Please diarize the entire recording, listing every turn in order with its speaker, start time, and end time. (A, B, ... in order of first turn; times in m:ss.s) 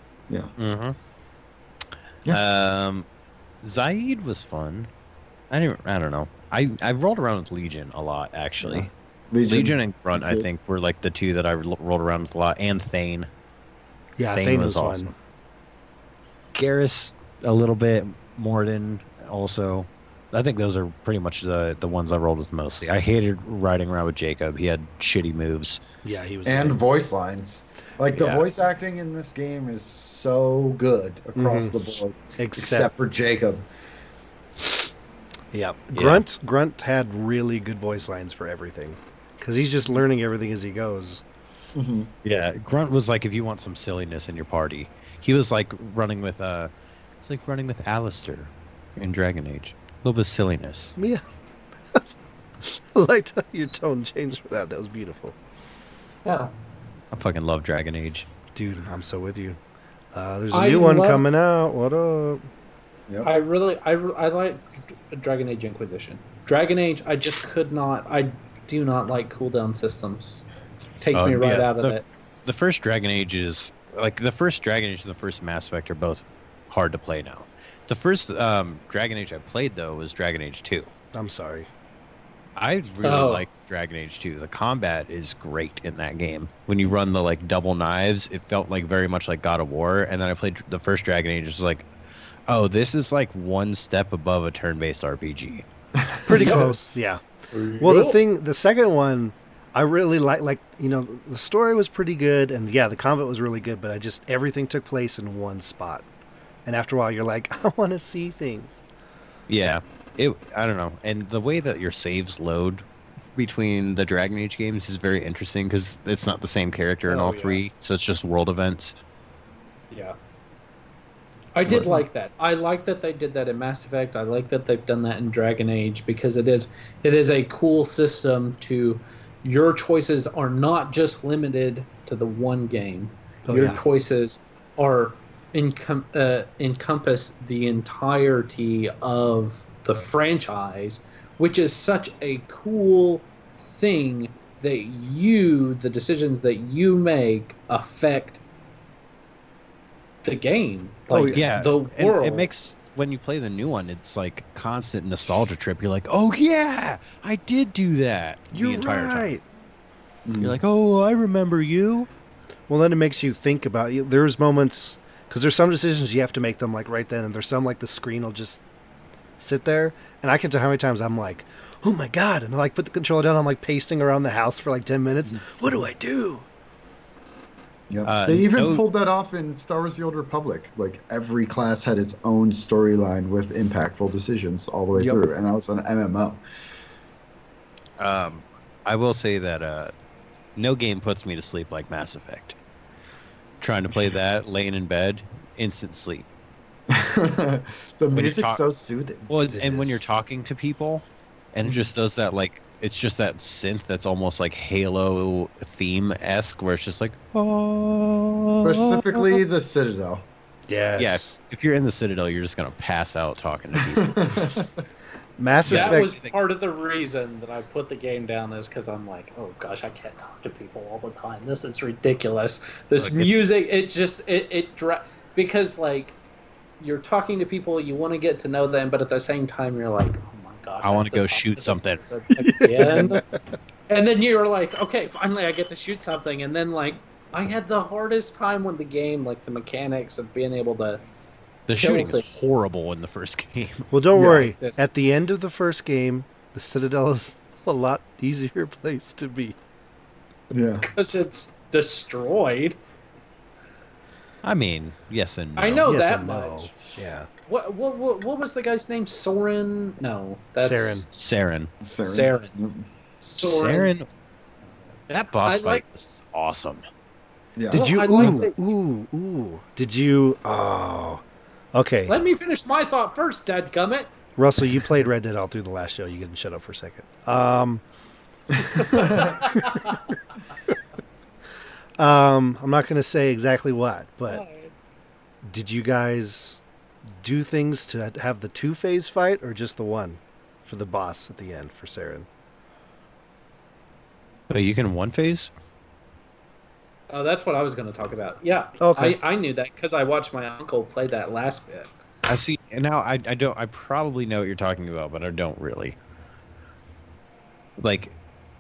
0:00.6-0:01.0 A
0:02.3-0:03.1 A
0:03.6-0:04.9 A
0:05.5-0:08.9 A
0:08.6-0:10.4 B
0:09.4-0:13.3 A
0:14.2-0:15.1 C
0:14.3-0:15.1 A
0:16.5-0:25.8 A
0:26.0-0:26.8 C
0:26.4-0:33.6 B
0:28.1-0:28.5 A
0:31.4-0:31.7 C
0:32.4-0:32.9 C
0:35.5-0:41.2 C
0:35.9-0:36.2 A
0:41.7-0:42.1 B
0:42.2-0:46.7 A
0:47.2-0:51.0 A
0:51.0-0:51.2 C
0:52.6-0:55.4 C
0:56.2-0:56.5 D
0:57.1-0:58.3 A
0:58.5-0:59.6 C
1:00.1-1:02.5 C
1:00.5-1:01.2 D
1:03.2-1:10.4 D
1:11.0-1:12.0 D
1:11.1-1:20.9 A
1:21.1-1:21.7 C
1:22.6-1:31.9 A
1:23.0-1:23.5 D
1:32.5-1:35.6 A
1:36.0-1:36.7 B
1:36.2-1:37.2 C
1:36.3-1:36.8 D
1:37.5-1:38.2 D
1:37.8-1:46.0 C
1:46.6-1:48.8 C
1:49.5-1:59.0 A
1:57.0-1:57.6 D
1:59.9-2:00.2 D
2:01.5-2:28.4 D
2:01.6-2:02.0 A
2:13.5-2:13.8 C
2:30.2-2:32.5 D
2:31.1-2:31.4 B
2:31.3-2:39.3 A
2:38.5-2:39.4 C
2:40.2-2:40.6 B
2:40.4-2:42.1 A
2:42.7-2:48.6 C
2:49.4-2:56.4 C
2:57.9-3:06.4 B
2:58.0-2:58.8 A
3:08.0-3:09.9 A
3:10.6-3:12.6 A
3:13.6-3:16.3 A
3:16.9-3:19.3 B
3:18.1-3:18.6 A
3:19.3-3:29.4 A
3:19.5-3:19.9 C
3:28.6-3:30.3 B
3:30.7-3:31.4 C
3:31.0-3:34.2 A
3:33.8-3:34.7 B
3:35.4-3:36.1 C
3:35.6-3:36.4 A
3:35.6-3:46.2 D
3:43.0-3:43.4 A
3:46.8-3:53.2 D
3:50.8-3:52.0 A
3:52.4-3:53.2 C
3:53.9-4:01.0 D
4:01.7-4:03.9 A
4:01.7-4:02.2 D
4:03.9-4:09.6 C
4:04.1-4:04.5 B
4:04.2-4:04.8 D
4:10.5-4:10.9 B
4:10.8-4:12.8 D
4:14.4-4:15.9 A
4:15.6-4:16.7 D
4:15.8-4:17.3 C
4:17.5-4:21.0 D
4:20.6-4:21.1 C
4:21.1-4:21.7 A
4:21.8-4:22.9 B
4:22.0-4:22.5 D
4:23.2-4:23.9 D
4:23.4-4:24.0 A
4:25.1-4:26.8 A
4:25.4-4:25.8 D
4:27.6-4:27.8 B
4:27.7-4:28.6 D
4:27.7-4:31.2 C
4:31.7-4:32.2 C
4:32.1-4:34.1 D
4:34.4-4:37.8 C
4:38.8-4:39.8 C
4:38.8-4:40.0 D
4:38.9-4:39.3 B
4:42.0-4:44.4 C
4:44.3-4:44.7 D
4:45.4-4:46.6 C
4:47.2-4:52.3 C
4:54.5-4:55.5 A
4:57.1-5:01.9 D
4:58.8-4:59.2 C
5:02.2-5:06.0 A
5:07.8-5:08.2 A